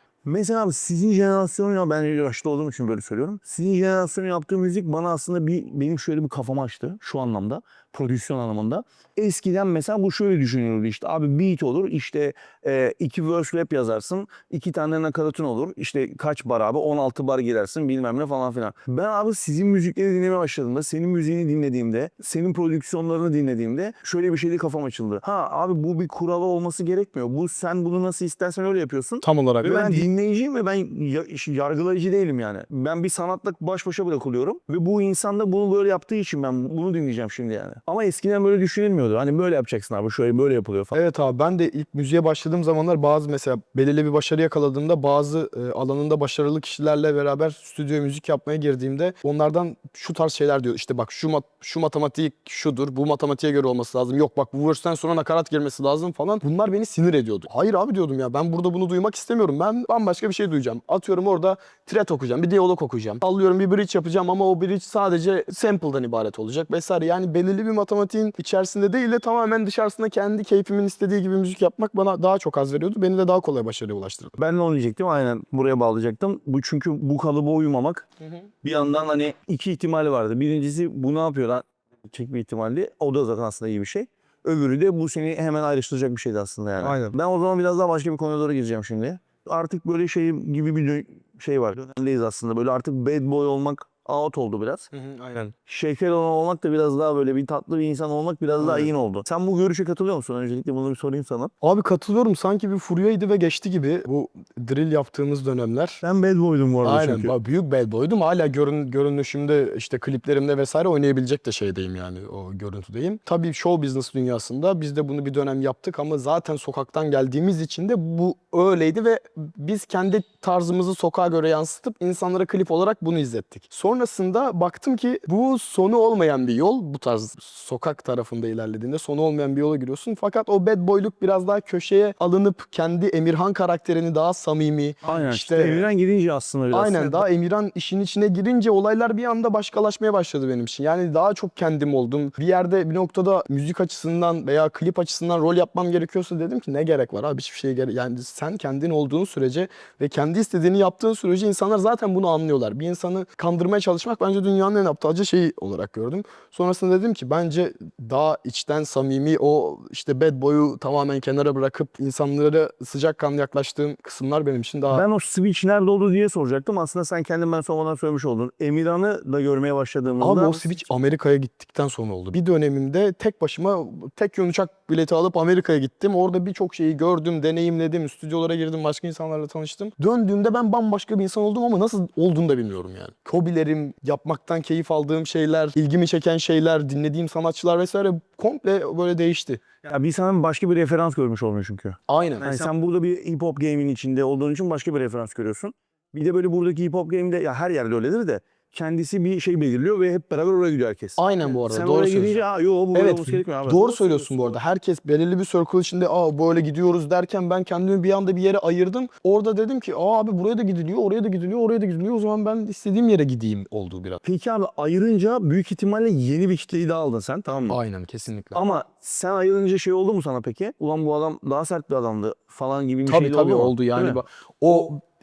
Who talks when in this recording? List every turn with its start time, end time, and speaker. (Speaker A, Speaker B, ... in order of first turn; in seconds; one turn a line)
Speaker A: 0.2-41.0
Speaker B: 29.2-30.1
Speaker B: 40.9-74.4
Speaker A: 74.4-78.0
Speaker B: 78.2-78.5
Speaker A: 78.6-94.9
Speaker B: 86.8-87.2
Speaker B: 94.9-95.5
Speaker A: 95.7-101.5
Speaker B: 98.6-98.9
Speaker B: 101.6-106.0
Speaker A: 106.0-107.3
Speaker B: 106.8-135.9
Speaker A: 135.0-137.2
Speaker B: 136.7-165.0
Speaker A: 164.9-170.8
Speaker B: 170.2-189.6
Speaker A: 189.8-204.5
Speaker B: 192.1-192.7
Speaker B: 201.2-214.2
Speaker A: 214.2-217.8
Speaker B: 217.7-218.6
Speaker A: 218.5-224.2
Speaker B: 223.1-225.0